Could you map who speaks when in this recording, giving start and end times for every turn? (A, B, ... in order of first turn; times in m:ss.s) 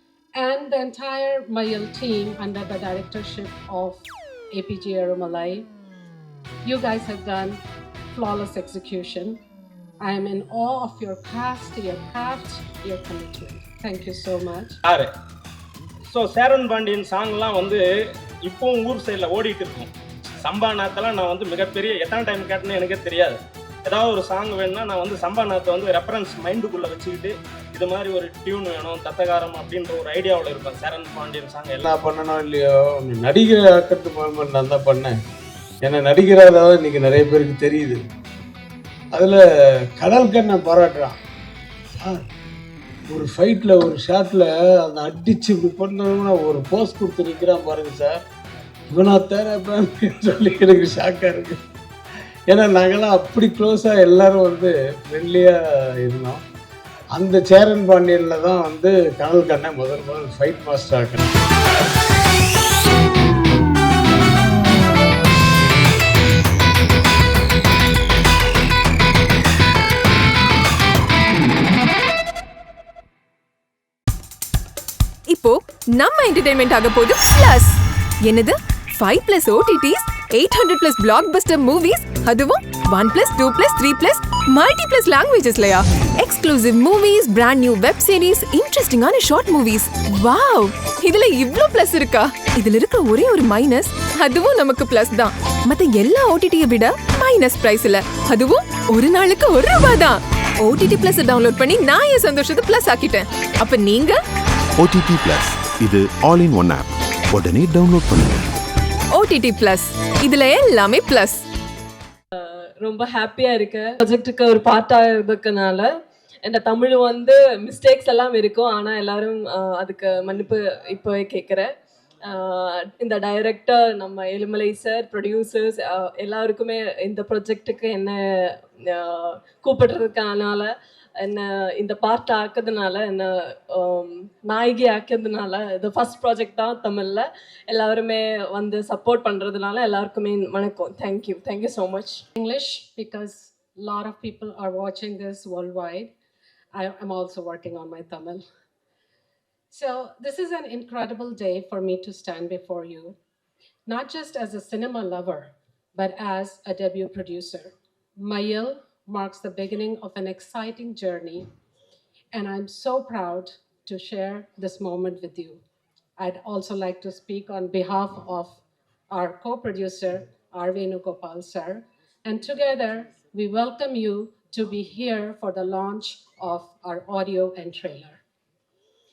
0:00.4-0:04.0 A
0:04.5-0:05.7 A
0:06.7-0:07.6 A
0:08.1-0:09.4 A
0:10.0-0:14.8 A
0:14.8-0:15.1 B
0:16.1-0:17.8 B
0:18.4-0:19.9 B
0:20.4-0:31.8 B
0:31.8-0:35.2 C
0:35.8-0:38.0 C
0:39.1-0:39.4 C
0:40.0-0:41.2 C
0:41.9-0:42.3 C
0:43.1-0:48.2 C
0:48.9-0:51.6 C
0:52.5-0:56.4 C
0:57.1-1:01.4 C
1:15.3-1:44.2 D
1:44.8-1:48.5 E
1:49.1-1:51.4 D
1:52.3-1:55.9 F
1:56.4-2:01.7 F
2:02.2-2:22.2 F
2:22.4-2:26.1 A
2:26.7-2:28.4 A
2:29.7-2:33.2 A
2:33.8-2:41.5 A
2:42.3-2:45.6 A
2:46.2-2:48.6 A
2:49.1-2:58.2 A